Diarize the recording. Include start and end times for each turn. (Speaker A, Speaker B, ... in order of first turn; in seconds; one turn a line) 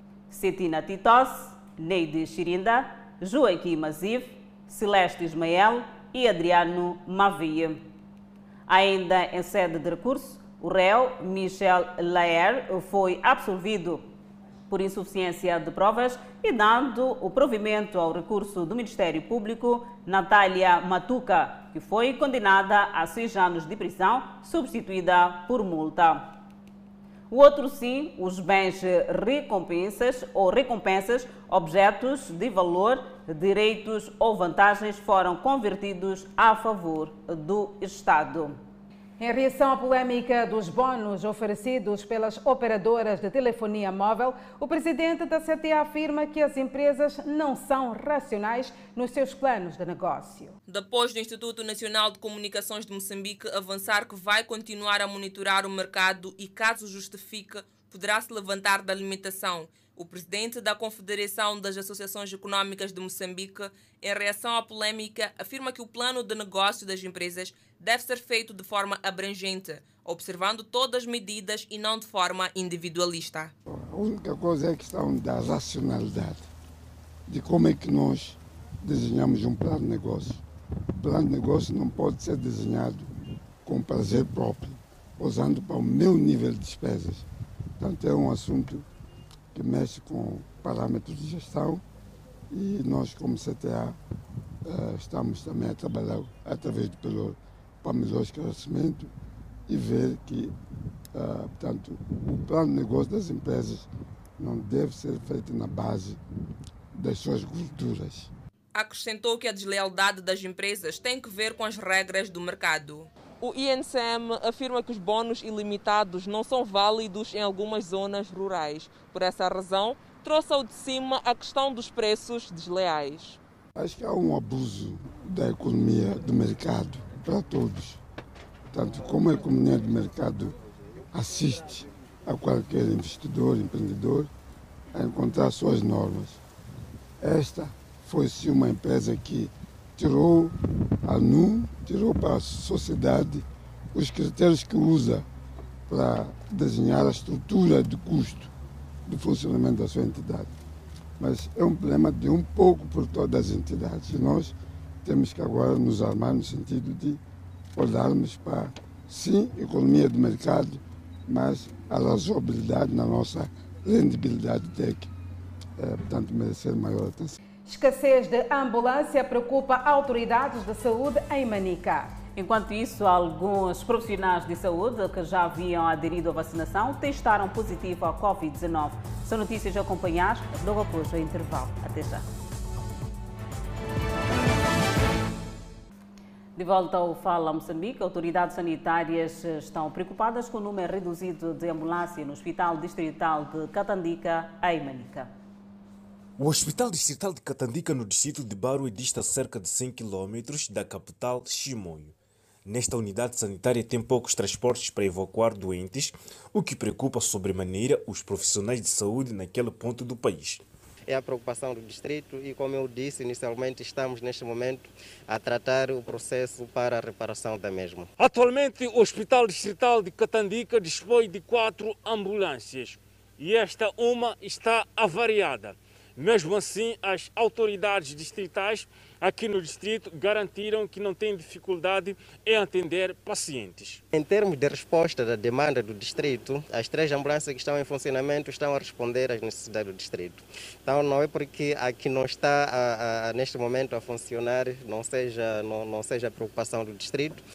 Speaker A: 0.3-7.8
Speaker A: 8.7-14.0
Speaker A: 14.7-26.4
Speaker A: 27.3-38.5
Speaker B: 39.2-50.5
Speaker C: 50.7-73.5
Speaker D: 73.7-76.5
Speaker D: 77.3-80.4
Speaker D: 81.0-83.1
Speaker D: 83.7-87.2
Speaker D: 87.8-88.8
Speaker D: 89.5-91.8
Speaker D: 92.5-94.0
Speaker D: 94.7-99.1
Speaker D: 99.7-100.5
Speaker D: 101.1-103.9
Speaker D: 104.4-106.2
Speaker D: 106.9-108.3
Speaker C: 108.8-123.4
Speaker D: 123.8-128.0
Speaker D: 128.7-130.6
Speaker D: 131.1-134.3
Speaker D: 134.9-136.4
Speaker D: 137.2-145.3
Speaker D: 145.9-148.5
Speaker D: 149.1-150.5
Speaker D: 151.2-157.2
Speaker D: 157.8-165.1
Speaker D: 165.8-167.4
Speaker B: 167.7-172.1
Speaker A: 172.4-182.2
Speaker A: 186.6-195.3
Speaker E: 196.4-202.1
Speaker E: 202.7-210.6
Speaker F: 211.1-217.9
Speaker G: 218.2-234.0
Speaker F: 234.3-240.3
Speaker F: 240.9-247.3